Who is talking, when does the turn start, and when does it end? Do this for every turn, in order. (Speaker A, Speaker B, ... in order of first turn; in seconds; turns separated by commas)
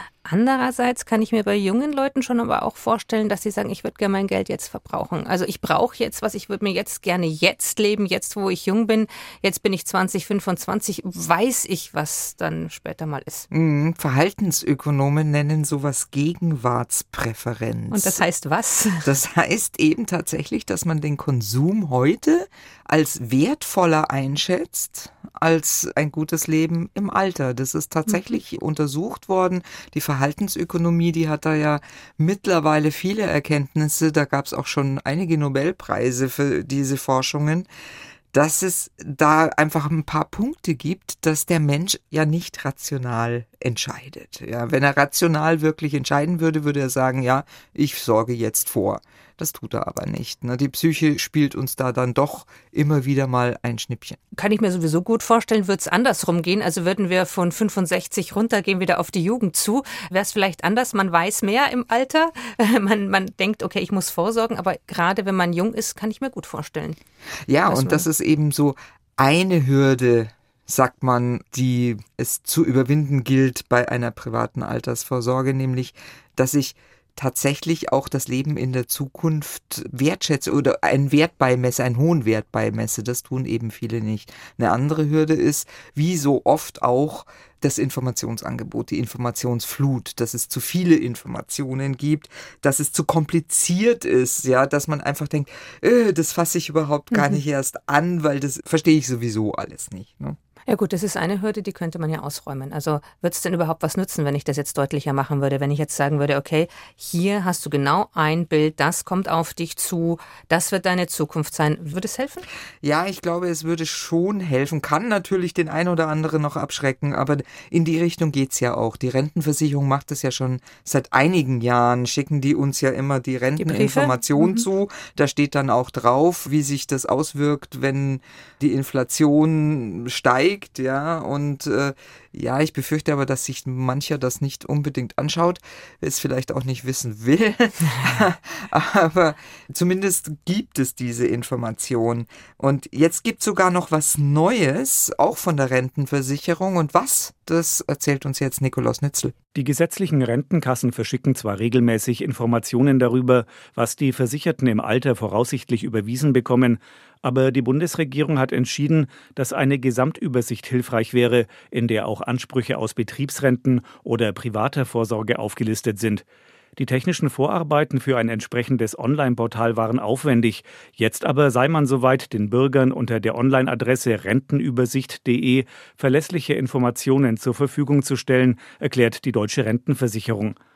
Speaker A: 0.2-13.4, Speaker B: 13.5-18.2, Speaker A: 17.9-19.1, Speaker B: 19.0-37.7, Speaker B: 38.3-54.2, Speaker A: 54.3-67.0, Speaker B: 67.5-100.4, Speaker A: 67.7-68.1, Speaker A: 97.1-97.4, Speaker A: 100.7-112.5, Speaker B: 112.8-149.3, Speaker A: 123.6-124.6, Speaker C: 149.5-166.2, Speaker C: 166.8-180.6